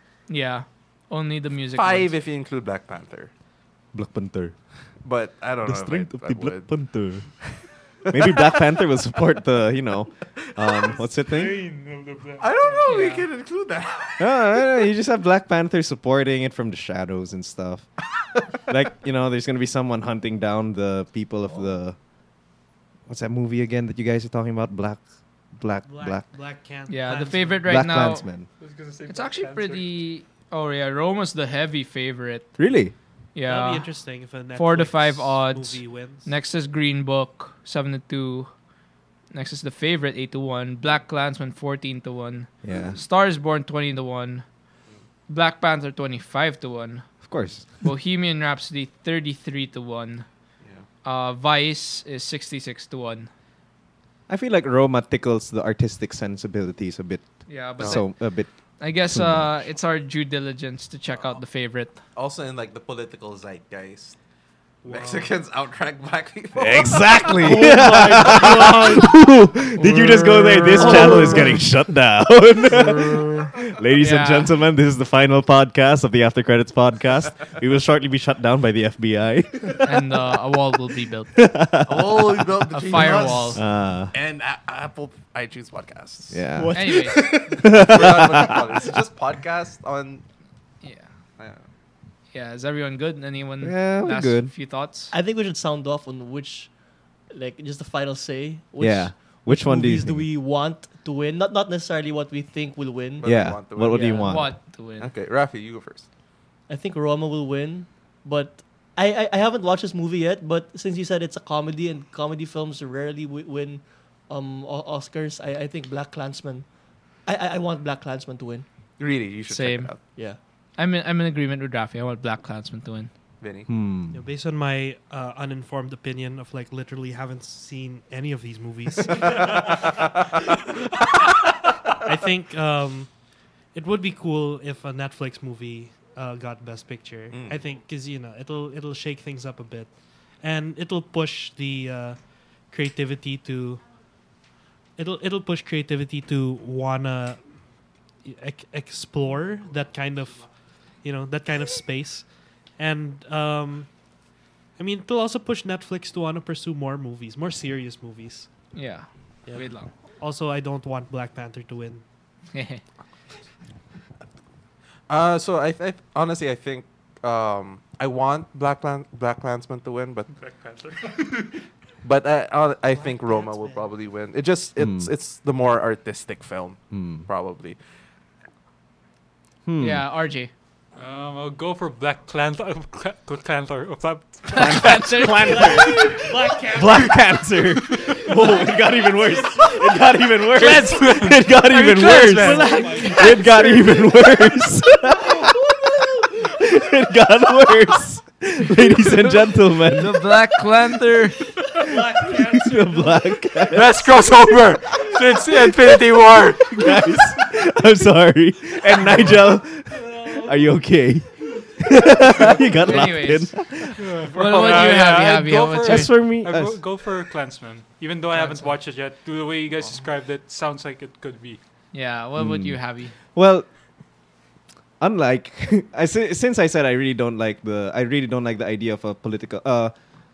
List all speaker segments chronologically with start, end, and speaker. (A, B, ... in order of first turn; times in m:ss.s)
0:00.3-0:02.1 A
0:01.7-0:03.3 B
0:03.9-0:04.6 C
0:05.0-0:06.7 B
0:05.6-0:11.6 C
0:08.1-0:08.6 B
0:10.8-0:12.9 D
0:12.4-0:14.6 B
0:12.9-0:13.3 A
0:14.2-0:17.9 C
0:18.6-0:22.0 C
0:23.1-0:26.2 C
0:25.8-0:27.9 E
0:26.9-0:28.2 A
0:27.6-0:28.5 C
0:28.6-0:29.9 D
0:29.1-0:32.6 A
0:32.6-0:32.9 C
0:33.3-0:33.9 A
0:33.4-0:36.3 E
0:34.5-0:38.5 A
0:39.3-0:44.4 A
0:42.6-0:43.0 C
0:45.3-0:47.1 A
0:47.2-0:47.7 C
0:47.8-0:50.2 A
0:51.0-0:53.3 A
0:54.3-0:59.7 C
0:57.5-0:58.2 A
0:58.8-1:02.0 A
1:02.1-1:04.2 B
1:04.8-1:05.3 E
1:04.8-1:07.5 B
1:06.5-1:19.8 C
1:07.4-1:09.2 F
1:09.8-1:11.2 A
1:09.8-1:11.6 F
1:14.0-1:14.5 A
1:19.8-1:21.3 A
1:21.3-1:22.5 C
1:21.8-1:26.5 B
1:22.7-1:23.6 A
1:23.5-1:24.1 C
1:26.3-1:28.9 C
1:26.5-1:27.6 F
1:26.7-1:27.2 A
1:27.5-1:30.2 B
1:30.8-1:31.1 A
1:31.4-1:31.6 B
1:32.3-1:35.1 A
1:33.6-1:34.5 C
1:35.1-1:36.7 F
1:37.3-1:43.5 F
1:38.8-1:40.3 C
1:43.2-1:46.0 B
1:43.2-1:44.6 C
1:43.9-1:45.1 A
1:46.7-1:56.7 F
1:57.2-1:58.6 F
1:59.0-2:00.0 B
1:59.5-2:00.2 A
2:00.8-2:03.1 A
2:03.4-2:03.7 B
2:03.7-2:04.2 C
2:04.1-2:09.8 E
2:09.2-2:10.1 B
2:12.0-2:13.1 E
2:13.7-2:23.8 E
2:17.3-2:17.6 B
2:25.0-2:27.4 E
2:28.2-2:33.9 E
2:34.8-2:38.5 E
2:38.7-2:39.9 A
2:39.4-2:42.0 E
2:42.5-2:42.8 A
2:45.1-2:50.3 B
2:50.3-2:51.6 D
2:52.0-2:57.8 B
2:52.9-2:53.9 E
2:54.8-2:55.1 C
2:56.9-2:57.2 C
2:59.6-3:00.0 C
2:59.8-3:00.5 A
3:01.0-3:04.9 D
3:04.5-3:05.9 A
3:04.5-3:20.4 C
3:05.3-3:07.5 E
3:07.9-3:08.3 D
3:08.2-3:10.1 E
3:10.5-3:13.6 D
3:12.0-3:14.2 E
3:12.8-3:13.0 A
3:15.2-3:15.6 E
3:19.8-3:21.5 A
3:21.6-3:23.6 E
3:21.9-3:24.2 C
3:23.7-3:27.0 D
3:26.6-3:34.0 C
3:28.9-3:30.5 E
3:32.7-3:33.6 A
3:34.0-3:41.6 D
3:34.3-3:36.2 A
3:34.4-3:34.9 B
3:35.8-3:36.8 C
3:38.3-3:38.7 A
3:41.9-3:43.1 A
3:42.4-3:43.7 C
3:45.0-3:49.9 C